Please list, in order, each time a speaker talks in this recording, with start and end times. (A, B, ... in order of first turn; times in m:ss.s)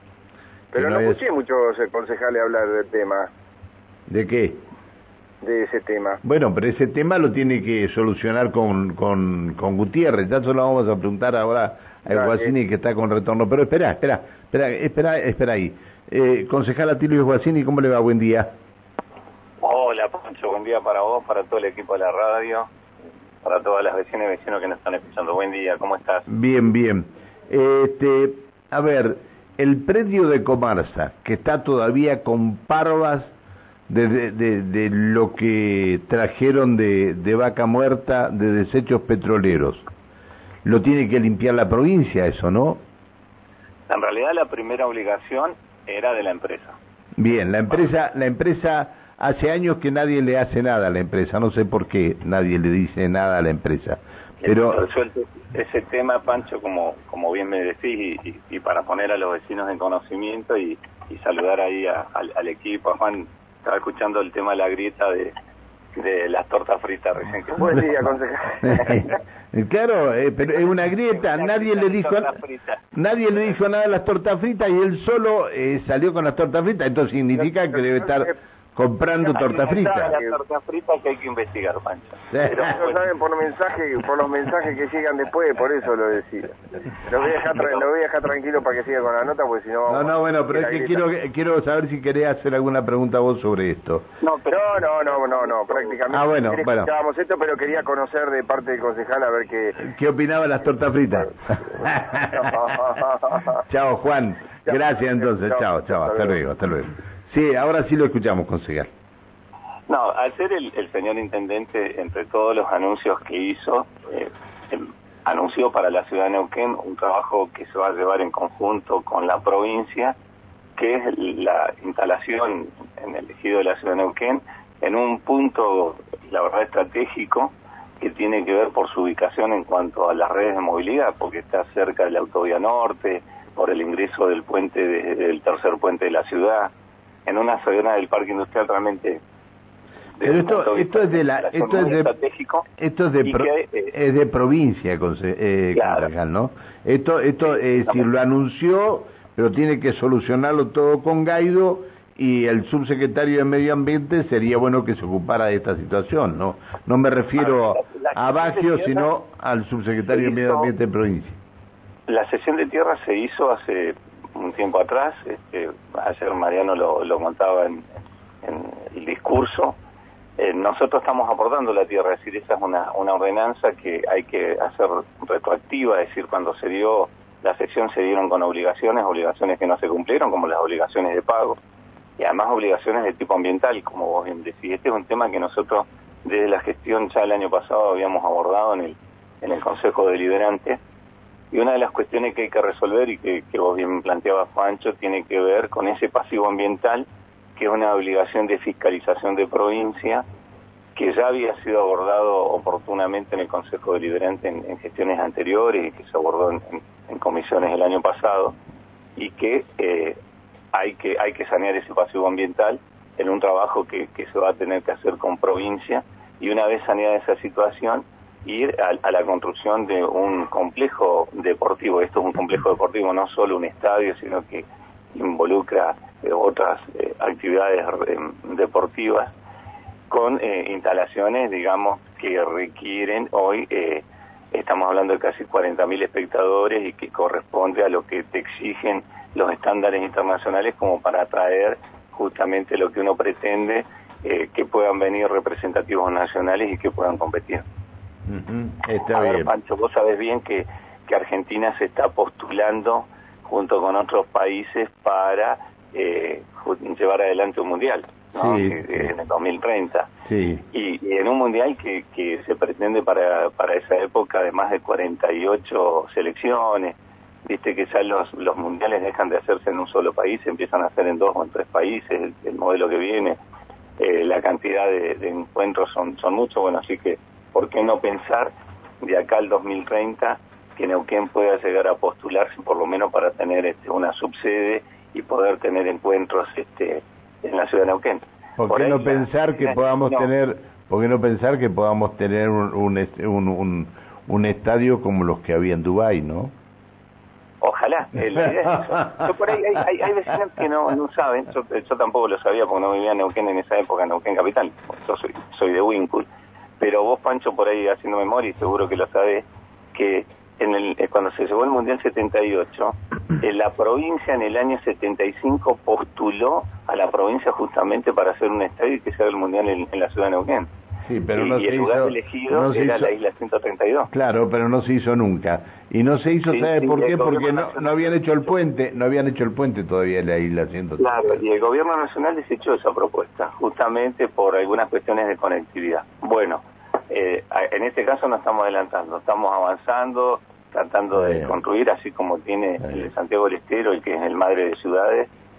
0:00.7-0:03.3 A
0:00.7-0:01.2 B
0:04.1-0:04.6 B
0:05.4-0:06.2 A
0:06.2-0:18.5 B
0:12.1-0:12.5 A
0:19.6-0:22.7 C
0:23.4-0:26.3 C
0:26.3-0:33.3 B
0:33.9-0:39.8 B
0:40.6-0:42.8 B
0:43.9-0:46.8 C
0:47.2-0:54.8 B
0:54.4-1:05.3 C
1:05.9-1:07.9 C
1:07.5-1:09.1 A
1:08.6-1:12.4 B
1:10.4-1:12.9 C
1:12.9-1:20.2 B
1:17.7-1:18.4 A
1:19.2-1:23.1 C
1:20.0-1:20.3 A
1:22.3-1:22.7 B
1:22.5-1:31.0 A
1:29.9-1:34.0 B
1:34.2-1:36.0 C
1:34.5-1:39.8 A
1:36.1-1:36.9 B
1:39.8-1:48.9 B
1:41.5-1:43.5 A
1:44.6-1:46.4 A
1:49.9-2:00.1 C
2:00.8-2:16.7 C
2:17.2-2:19.2 C
2:20.2-2:22.7 C
2:20.2-2:22.1 B
2:22.8-2:41.4 B
2:23.2-2:23.9 C
2:25.7-2:26.1 C
2:27.4-2:28.1 C
2:37.3-2:39.1 C
2:40.0-2:40.7 C
2:42.1-2:47.9 C
2:48.4-2:49.8 C
2:50.4-3:01.6 C
3:02.2-3:10.8 C
3:11.5-3:20.2 C
3:21.0-3:28.6 C
3:29.2-3:30.2 C
3:30.7-3:49.3 C
3:50.1-4:07.6 C
4:08.3-4:09.5 B
4:09.1-4:20.1 C
4:18.4-4:19.1 B
4:20.3-4:20.6 B
4:20.7-4:26.9 C
4:27.4-4:33.4 C
4:34.0-4:50.3 C
4:48.6-4:56.5 B
4:57.6-5:06.3 C
5:06.8-5:20.7 C
5:21.0-5:23.1 B
5:21.3-5:24.1 C
5:24.1-5:31.4 B
5:26.5-5:28.5 C
5:31.0-5:45.3 C
5:41.1-5:41.6 B
5:42.8-5:43.1 B